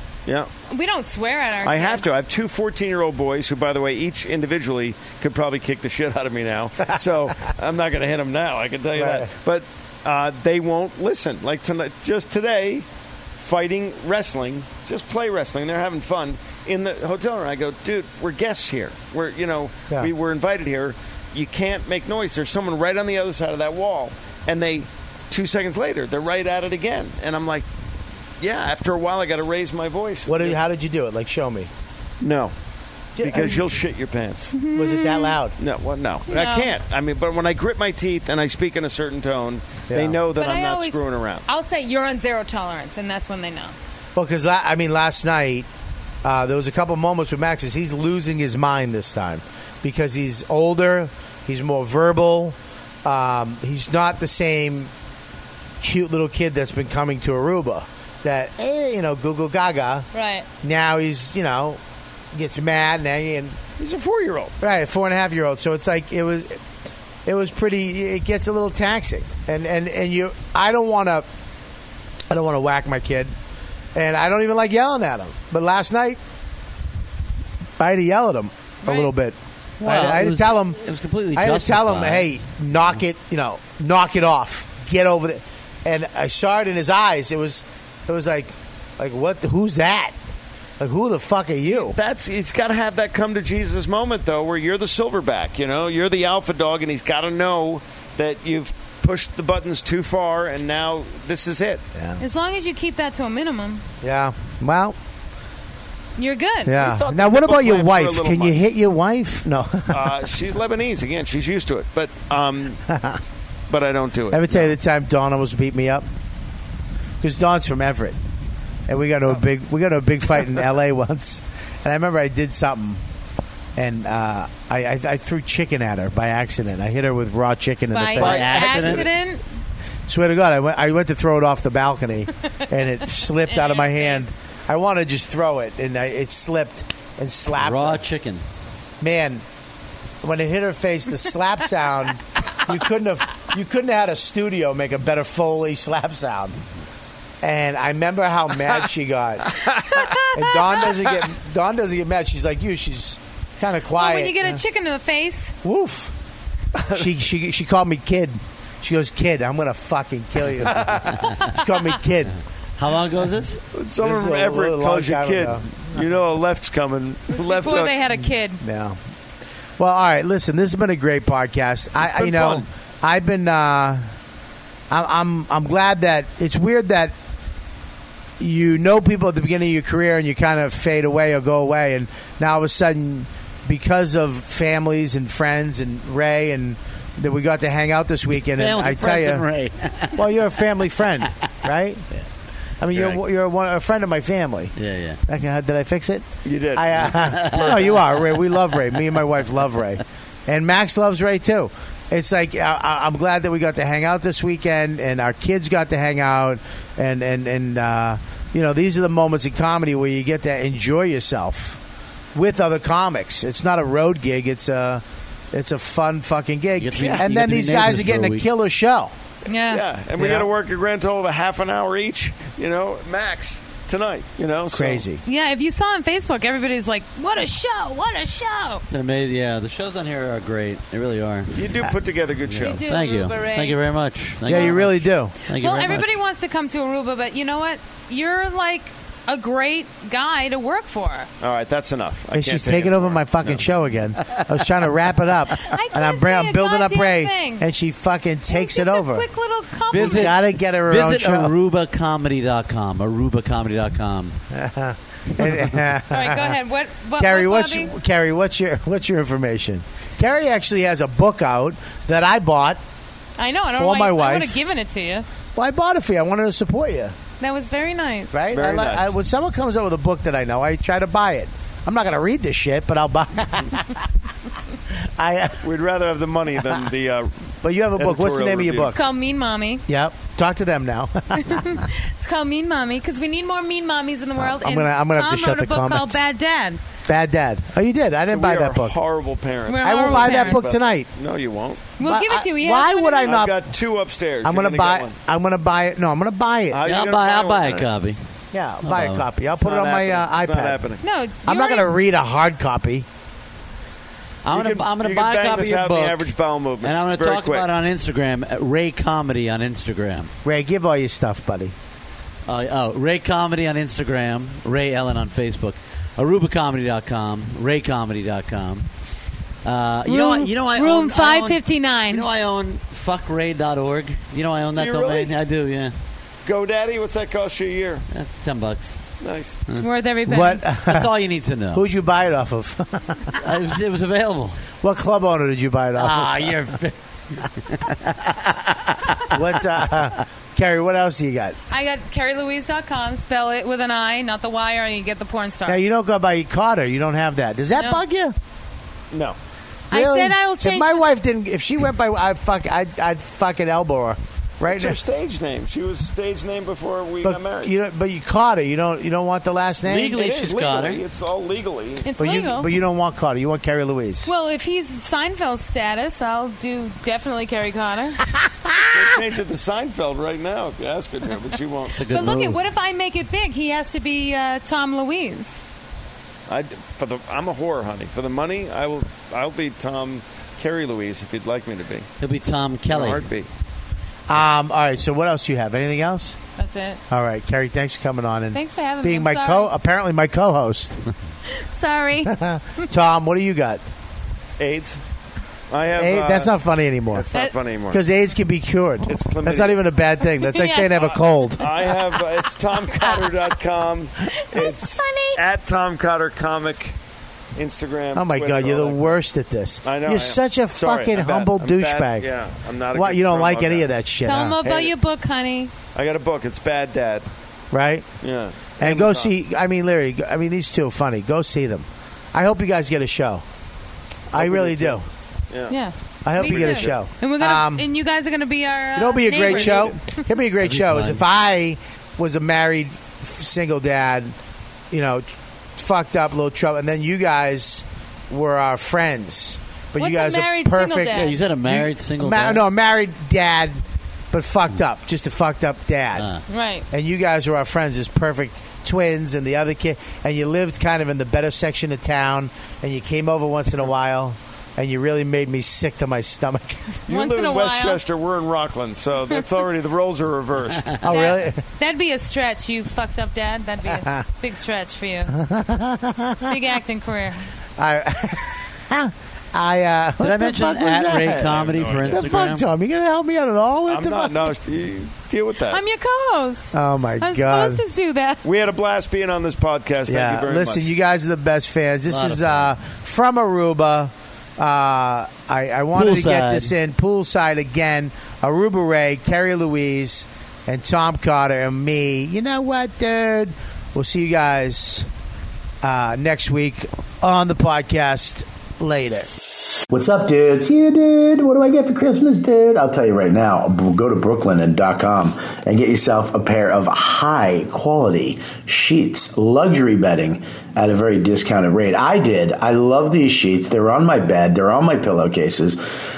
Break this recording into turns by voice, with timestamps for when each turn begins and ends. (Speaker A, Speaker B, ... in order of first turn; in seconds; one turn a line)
Speaker A: 0.7-2.1
Speaker B: 1.6-12.9
Speaker C: 8.9-9.3
Speaker B: 13.4-27.7
Speaker B: 28.4-30.6
Speaker C: 30.3-31.7
Speaker B: 32.2-32.5
Speaker C: 33.2-33.7
Speaker B: 33.2-34.5
Speaker A: 34.5-35.4
Speaker C: 34.7-35.6
Speaker B: 35.6-41.5
Speaker A: 36.3-36.7
Speaker C: 39.9-40.2
Speaker A: 40.4-43.8
Speaker C: 44.2-45.7
Speaker C: 46.2-54.9
Speaker C: 55.8-60.1
Speaker A: 60.1-60.5
Speaker C: 60.6-61.8
Speaker C: 62.3-63.6
Speaker B: 63.8-64.5
Speaker C: 64.6-66.6
Speaker C: 67.3-71.3
Speaker C: 72.3-73.3
Speaker C: 74.0-76.2
Speaker C: 77.8-80.8
Speaker A: 78.8-79.1
Speaker D: 79.8-82.3
Speaker C: 81.3-90.2
Speaker C: 90.8-92.0
Speaker B: 91.7-101.8
Speaker C: 102.0-102.2
Speaker A: 102.2-103.8
Speaker C: 104.0-105.0
Speaker A: 106.2-106.8
Speaker C: 106.7-110.2
Speaker B: 106.7-108.6
Speaker B: 109.9-112.8
Speaker C: 112.9-113.2
Speaker B: 113.7-114.8
Speaker C: 114.3-116.1
Speaker C: 117.2-118.2
Speaker C: 118.9-123.0
Speaker C: 123.8-128.7
Speaker A: 127.9-129.4
Speaker B: 128.2-129.1
Speaker D: 128.2-129.1
Speaker C: 130.1-138.0
Speaker A: 133.5-134.2
Speaker D: 137.5-138.4
Speaker C: 139.0-139.4
Speaker C: 140.2-146.6
Speaker C: 147.4-154.6
Speaker B: 149.6-149.8
Speaker A: 149.9-150.2
Speaker A: 153.9-155.6
Speaker C: 155.6-156.1
Speaker B: 156.8-157.1
Speaker C: 156.9-162.3
Speaker B: 160.7-161.2
Speaker D: 162.8-163.6
Speaker B: 163.7-168.0
Speaker C: 164.0-166.1
Speaker A: 167.3-168.6
Speaker C: 168.6-169.0
Speaker C: 169.8-174.1
Speaker B: 172.0-172.7
Speaker C: 174.9-177.1
Speaker C: 178.4-189.5
Speaker D: 188.6-190.3
Speaker C: 190.1-192.1
Speaker C: 192.8-194.8
Speaker D: 194.8-195.2
Speaker C: 195.3-211.8
Speaker B: 196.4-197.7
Speaker D: 197.1-198.1
Speaker C: 212.3-219.1
Speaker D: 216.8-218.4
Speaker B: 216.9-217.3
Speaker A: 219.5-219.8
Speaker B: 219.7-225.0
Speaker C: 220.2-220.5
Speaker C: 224.7-225.2
Speaker A: 225.2-228.8
Speaker D: 228.9-231.7
Speaker B: 231.6-232.8
Speaker D: 232.5-236.1
Speaker A: 232.6-233.8
Speaker C: 234.4-235.3
Speaker A: 234.5-234.8
Speaker A: 235.6-241.3
Speaker B: 241.4-243.7
Speaker C: 242.3-249.3
Speaker A: 245.7-247.7
Speaker A: 248.5-250.3
Speaker D: 249.9-254.4
Speaker C: 249.9-251.6
Speaker C: 254.5-256.6
Speaker A: 256.1-257.9
Speaker C: 257.2-262.8
Speaker A: 263.4-265.3
Speaker C: 263.7-264.6
Speaker C: 265.6-267.1
Speaker A: 267.4-268.3
Speaker C: 268.3-274.1
Speaker B: 268.5-269.1
Speaker C: 275.0-275.6
Speaker B: 275.6-277.3
Speaker C: 277.6-279.0
Speaker B: 278.0-278.9
Speaker A: 278.9-279.8
Speaker C: 279.9-281.8
Speaker A: 281.3-286.8
Speaker C: 284.4-286.2
Speaker C: 287.1-289.0
Speaker B: 288.3-291.9
Speaker A: 289.7-290.6
Speaker C: 289.8-291.1
Speaker A: 292.0-293.4
Speaker C: 292.0-293.6
Speaker B: 293.2-295.1
Speaker C: 294.4-296.9
Speaker B: 296.7-297.9
Speaker D: 296.9-298.2
Speaker C: 298.5-300.8
Speaker D: 298.8-299.2
Speaker B: 299.6-301.0
Speaker A: 301.0-301.9
Speaker C: 301.4-303.1
Speaker D: 304.4-306.3
Speaker B: 304.5-307.7
Speaker D: 306.8-310.3
Speaker C: 310.4-311.7
Speaker D: 312.5-318.9
Speaker D: 319.6-325.9
Speaker A: 320.1-322.2
Speaker B: 324.8-325.4
Speaker B: 326.4-328.1
Speaker D: 328.1-329.0
Speaker B: 329.2-329.6
Speaker A: 329.8-330.6
Speaker C: 330.3-331.2
Speaker D: 330.9-331.9
Speaker C: 331.7-333.4
Speaker D: 333.4-334.6
Speaker C: 334.8-336.8
Speaker D: 336.0-339.4
Speaker C: 339.3-341.6
Speaker A: 341.7-345.8
Speaker C: 345.7-348.4
Speaker A: 347.7-348.0
Speaker B: 349.1-349.4
Speaker A: 349.9-351.1
Speaker C: 349.9-355.0
Speaker B: 354.6-357.7
Speaker C: 357.2-360.2
Speaker D: 359.8-361.0
Speaker B: 360.1-362.1
Speaker A: 362.1-362.7
Speaker C: 362.2-364.3
Speaker A: 364.2-368.2
Speaker C: 368.4-368.9
Speaker B: 368.9-372.0
Speaker D: 372.0-372.6
Speaker A: 372.1-375.6
Speaker B: 376.5-382.1
Speaker D: 382.2-383.3
Speaker B: 382.9-383.5
Speaker C: 384.3-386.4
Speaker A: 386.6-387.0
Speaker C: 387.1-391.0
Speaker A: 388.5-389.7
Speaker A: 391.5-392.9
Speaker C: 392.2-393.8
Speaker B: 394.6-395.0
Speaker B: 395.7-396.6
Speaker C: 395.9-397.3
Speaker B: 397.1-398.0
Speaker C: 397.9-401.8
Speaker B: 399.1-399.8
Speaker A: 400.4-400.9
Speaker B: 401.0-407.0
Speaker A: 404.5-405.4
Speaker B: 407.6-409.2
Speaker C: 408.1-412.3
Speaker B: 409.8-413.9
Speaker C: 412.9-414.6
Speaker A: 414.2-415.7
Speaker B: 414.6-414.9
Speaker B: 415.9-417.3
Speaker C: 417.7-418.1
Speaker B: 418.2-419.3
Speaker C: 418.8-423.4
Speaker C: 424.3-425.1
Speaker B: 424.3-425.8
Speaker A: 425.7-430.2
Speaker C: 426.2-427.9
Speaker B: 426.4-427.0
Speaker C: 429.0-434.3
Speaker B: 429.5-429.8
Speaker D: 430.6-431.2
Speaker C: 434.9-443.8
Speaker A: 440.0-441.4
Speaker D: 441.1-442.6
Speaker C: 444.3-446.3
Speaker A: 446.5-446.9
Speaker C: 446.9-456.9
Speaker A: 457.1-458.0
Speaker B: 457.1-461.0
Speaker C: 461.0-461.6
Speaker A: 461.1-465.4
Speaker C: 463.9-464.2
Speaker C: 465.3-466.6
Speaker A: 466.5-467.4
Speaker C: 467.8-474.6
Speaker D: 470.2-472.6
Speaker B: 471.4-472.3
Speaker B: 473.9-475.8
Speaker A: 475.7-478.4
Speaker C: 476.7-477.8
Speaker B: 478.4-480.9
Speaker C: 480.1-495.1
Speaker D: 482.1-482.7
Speaker D: 485.9-486.7
Speaker C: 495.8-499.3
Speaker E: 499.9-515.8